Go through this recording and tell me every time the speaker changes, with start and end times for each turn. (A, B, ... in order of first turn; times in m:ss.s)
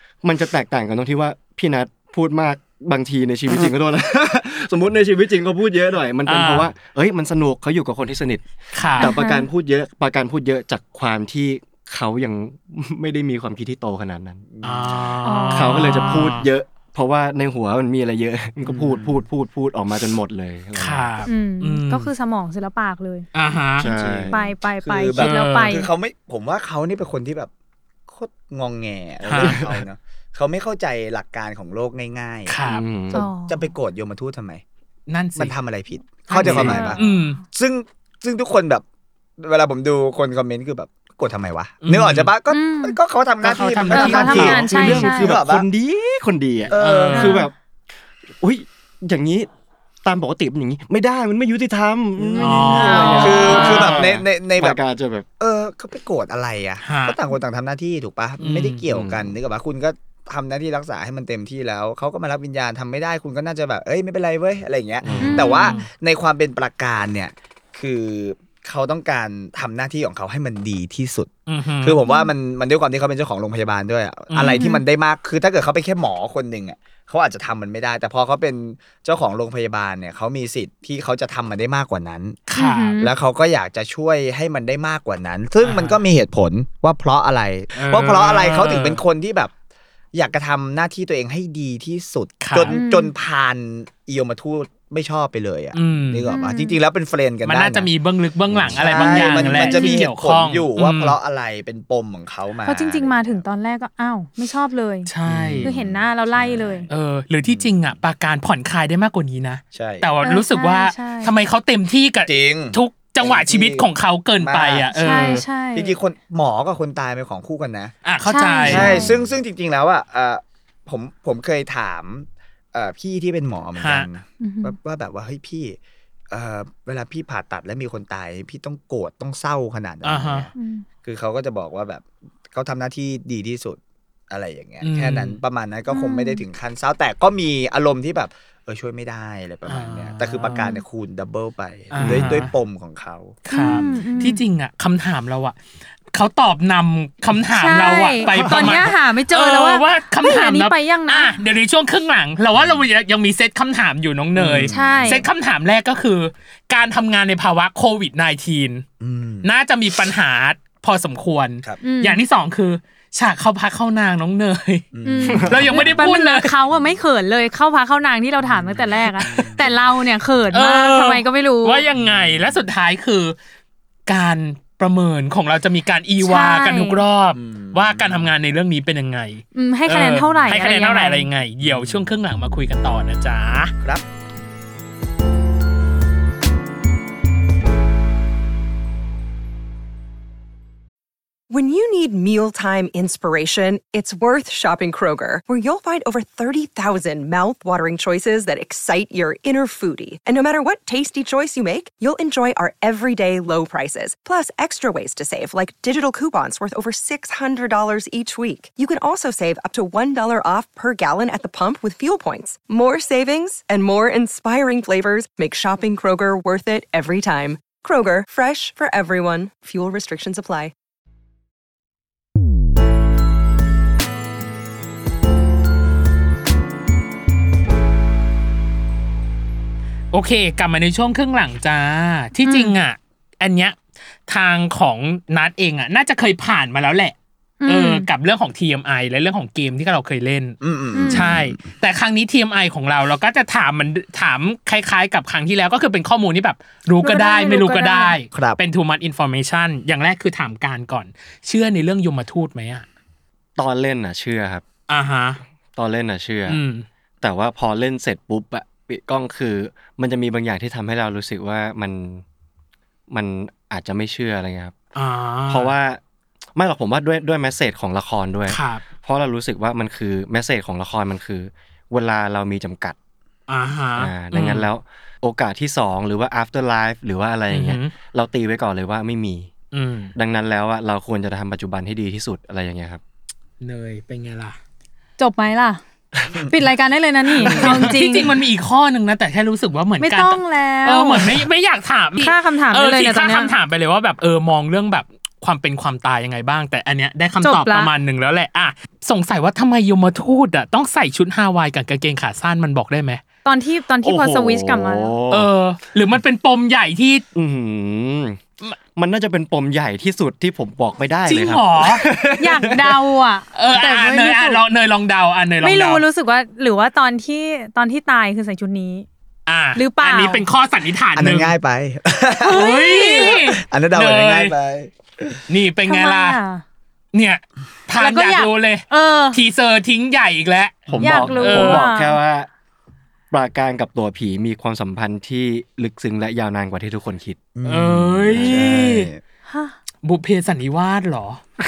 0:00.2-0:14.5 A
0:06.2-0:06.7 B
0:08.7-0:09.2 B
0:09.0-0:09.5 C
0:14.5-0:15.1 D
0:14.6-0:16.5 B
0:15.2-0:16.3 C
0:15.5-0:21.2 A
0:18.6-0:19.2 D
0:20.8-0:22.1 B
0:21.2-0:23.2 C
0:23.3-0:23.9 B
0:23.8-0:24.4 A
0:23.8-0:27.5 D
0:24.3-0:25.9 C
0:25.2-0:25.7 B
0:28.1-0:34.6 D
0:29.2-0:29.6 B
0:29.3-0:29.8 A
0:32.5-0:32.8 B
0:32.6-0:33.2 A
0:33.1-0:33.7 C
0:35.1-0:35.5 B
0:35.4-0:38.8 D
0:36.3-0:37.4 B
0:36.4-0:36.9 A
0:36.6-0:37.3 C
0:39.4-0:45.7 D
0:41.8-0:42.3 B
0:42.5-0:43.0 C
0:43.4-0:45.1 B
0:43.9-0:45.3 C
0:44.1-0:47.5 A
0:46.7-0:47.3 D
0:46.8-0:47.4 B
0:47.1-0:47.5 C
0:48.4-0:49.5 A
0:50.0-0:55.3 A
0:52.2-0:54.8 D
0:52.4-0:54.1 B
0:55.4-1:11.3 D
0:56.8-0:57.2 B
0:58.4-0:58.8 B
0:58.9-0:59.3 A
1:05.0-1:05.5 A
1:05.2-1:05.8 C
1:05.4-1:05.9 B
1:11.5-1:12.0 B
1:11.8-1:22.4 D
1:12.0-1:12.3 C
1:14.3-1:14.6 B
1:14.4-1:14.8 C
1:22.5-1:23.0 B
1:22.5-1:23.1 C
1:23.0-1:29.5 D
1:25.6-1:26.0 B
1:27.7-1:29.0 B
1:30.1-1:37.9 D
1:32.4-1:32.8 B
1:32.7-1:33.1 C
1:35.7-1:36.2 B
1:36.3-1:36.8 C
1:37.4-1:41.2 B
1:38.5-1:43.4 D
1:38.9-1:40.0 C
1:42.6-1:45.1 C
1:45.1-1:45.7 B
1:45.3-1:46.9 D
1:45.6-1:46.9 C
1:46.9-1:55.4 B
1:47.4-1:47.9 D
1:49.7-1:50.1 D
1:50.2-1:51.3 C
1:52.2-1:57.9 D
1:54.9-1:56.0 C
1:58.0-1:59.1 B
1:58.2-1:59.1 C
1:58.6-2:05.8 D
2:03.8-2:04.1 B
2:04.4-2:04.8 C
2:06.3-2:10.5 D
2:10.0-2:10.5 B
2:10.5-2:10.8 C
2:11.0-2:24.3 D
2:14.8-2:15.4 B
2:15.9-2:16.4 C
2:19.7-2:20.7 B
2:21.9-2:22.5 B
2:22.0-2:22.3 A
2:23.4-2:25.6 B
2:23.5-2:24.4 C
2:26.1-2:38.8 B
2:27.5-2:31.4 C
2:28.3-2:28.7 D
2:32.5-2:32.8 D
2:34.3-2:35.2 D
2:34.7-2:35.2 C
2:39.0-2:39.5 D
2:39.4-2:44.9 B
2:41.8-2:42.2 C
2:44.9-2:46.0 D
2:45.0-2:51.8 C
2:45.3-2:45.8 A
2:45.4-2:46.5 B
2:46.7-2:47.0 D
2:48.4-2:49.7 D
2:50.5-2:53.3 B
2:51.9-2:52.6 D
2:54.1-3:03.7 B
2:56.2-2:57.0 C
2:57.3-2:58.3 D
2:59.5-3:01.3 C
3:01.6-3:02.1 D
3:11.5-3:40.7 E
3:50.1-3:53.8 B
3:52.4-3:52.7 C
3:54.3-3:57.1 B
3:57.6-3:58.1 C
3:57.6-4:00.6 B
4:00.6-4:01.6 D
4:00.9-4:01.3 C
4:01.1-4:12.8 B
4:07.0-4:08.1 C
4:08.3-4:08.6 D
4:13.6-4:14.6 A
4:14.9-4:15.4 B
4:15.8-4:16.6 A
4:16.5-4:16.8 B
4:17.2-4:22.2 A
4:23.1-4:24.7 A
4:24.9-4:25.7 B
4:25.5-4:26.0 A
4:26.5-4:33.0 A
4:28.5-4:28.8 B
4:33.5-4:34.7 B
4:34.0-4:39.5 A
4:37.5-4:37.9 B
4:39.7-4:40.1 B
4:40.1-4:43.0 A
4:43.6-4:44.6 B
4:45.2-4:45.8 C
4:46.5-4:48.3 C
4:47.4-4:47.9 A
4:47.4-5:03.2 B
4:50.0-4:51.4 C
4:52.2-4:53.5 C
4:57.4-4:57.9 C
5:03.4-5:05.1 C
5:04.0-5:05.5 A
5:05.3-5:07.2 B
5:07.3-5:13.0 A
5:11.2-5:12.0 B
5:12.4-5:14.6 C
5:13.5-5:16.0 B
5:15.6-5:19.0 C
5:19.5-5:21.5 B
5:19.7-5:20.4 C
5:21.1-5:25.4 D
5:22.4-5:23.5 C
5:22.5-5:24.5 B
5:25.5-5:26.4 B
5:25.8-5:26.6 C
5:27.1-5:31.9 B
5:28.0-5:29.4 C
5:30.9-5:32.5 A
5:31.0-5:32.2 C
5:33.3-5:37.4 A
5:37.5-5:39.2 D
5:37.6-5:39.1 B
5:38.3-5:38.8 A
5:39.5-5:39.7 C
5:40.0-5:41.4 B